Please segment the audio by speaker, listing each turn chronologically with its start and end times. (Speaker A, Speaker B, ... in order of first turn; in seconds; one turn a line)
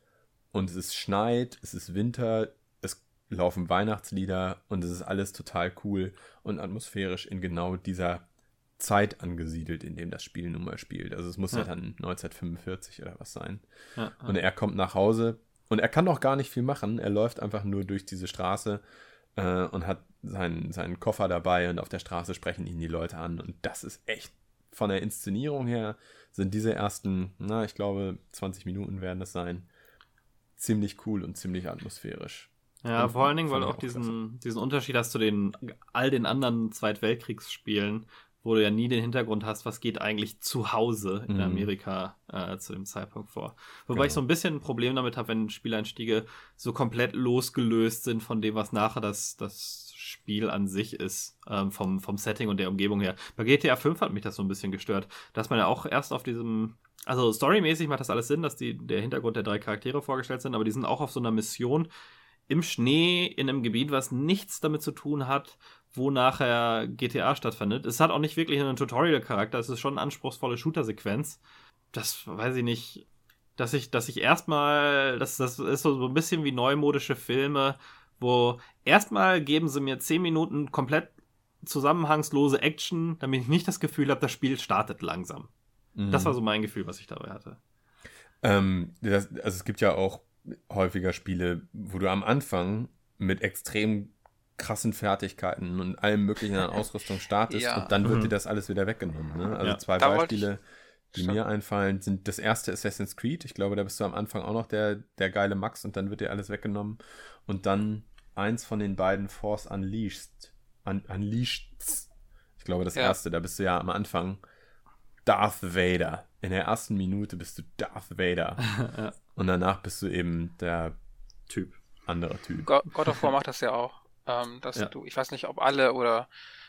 Speaker A: 0.5-8.2
Speaker A: 8.8-13.6
Speaker B: 13.9-14.4
Speaker A: 14.2-18.8
Speaker A: 19.3-29.7
Speaker A: 30.6-34.1
Speaker B: 32.8-61.9
Speaker A: 41.3-41.7
Speaker A: 43.9-44.2
Speaker B: 62.5-71.4
Speaker B: 71.9-73.0
Speaker B: 73.6-85.5
Speaker A: 85.9-86.4
Speaker B: 86.1-87.6
Speaker A: 88.4-100.6
Speaker C: 97.5-97.9
Speaker B: 98.0-98.3
Speaker C: 100.0-100.5
Speaker A: 101.1-112.1
Speaker A: 112.6-114.4
Speaker A: 115.2-118.7
Speaker B: 118.7-119.1
Speaker A: 119.3-120.9
Speaker B: 121.5-121.8
Speaker A: 122.0-122.7
Speaker C: 122.6-126.3